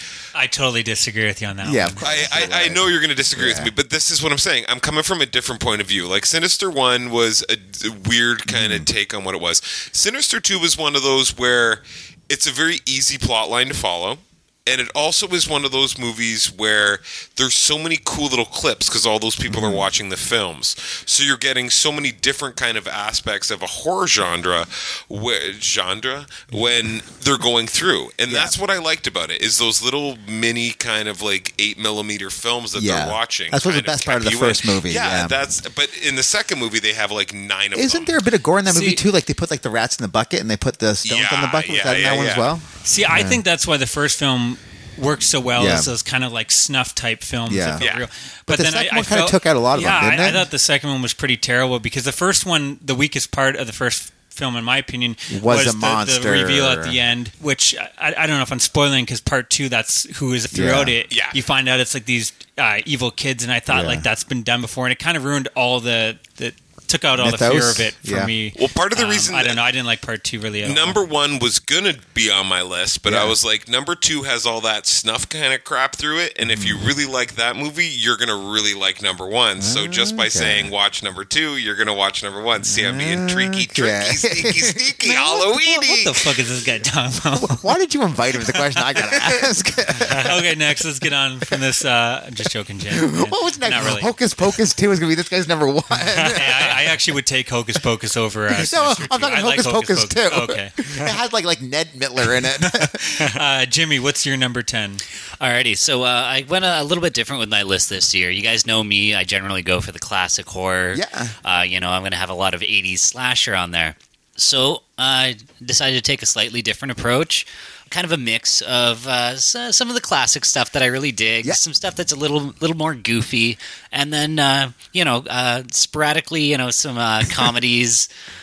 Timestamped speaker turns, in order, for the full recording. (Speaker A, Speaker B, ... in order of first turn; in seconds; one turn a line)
Speaker A: 0.3-2.0
Speaker B: 1.6-3.7
Speaker C: 2.0-38.2
Speaker B: 8.5-8.9
Speaker B: 19.5-19.9
Speaker B: 28.3-28.6
Speaker B: 32.8-35.4
Speaker B: 37.8-43.4
Speaker A: 38.6-39.0
Speaker C: 41.0-42.5
Speaker A: 42.8-71.0
Speaker B: 45.6-45.9
Speaker B: 47.5-47.8
Speaker C: 47.8-48.1
Speaker B: 48.5-50.5
Speaker B: 55.3-57.0
Speaker B: 60.5-60.9
Speaker C: 61.1-61.4
Speaker B: 63.7-64.0
Speaker B: 67.2-68.3
Speaker C: 68.6-69.6
Speaker C: 70.6-86.2
Speaker B: 73.1-73.3
Speaker B: 76.4-76.9
Speaker B: 79.6-80.7
Speaker B: 82.6-85.2
Speaker A: 85.0-87.7
Speaker B: 87.4-90.4
Speaker A: 90.2-94.1
Speaker B: 92.9-96.8
Speaker A: 96.1-100.8
Speaker B: 98.5-103.0
Speaker A: 102.6-105.0
Speaker D: 105.4-128.1
Speaker B: 110.9-111.3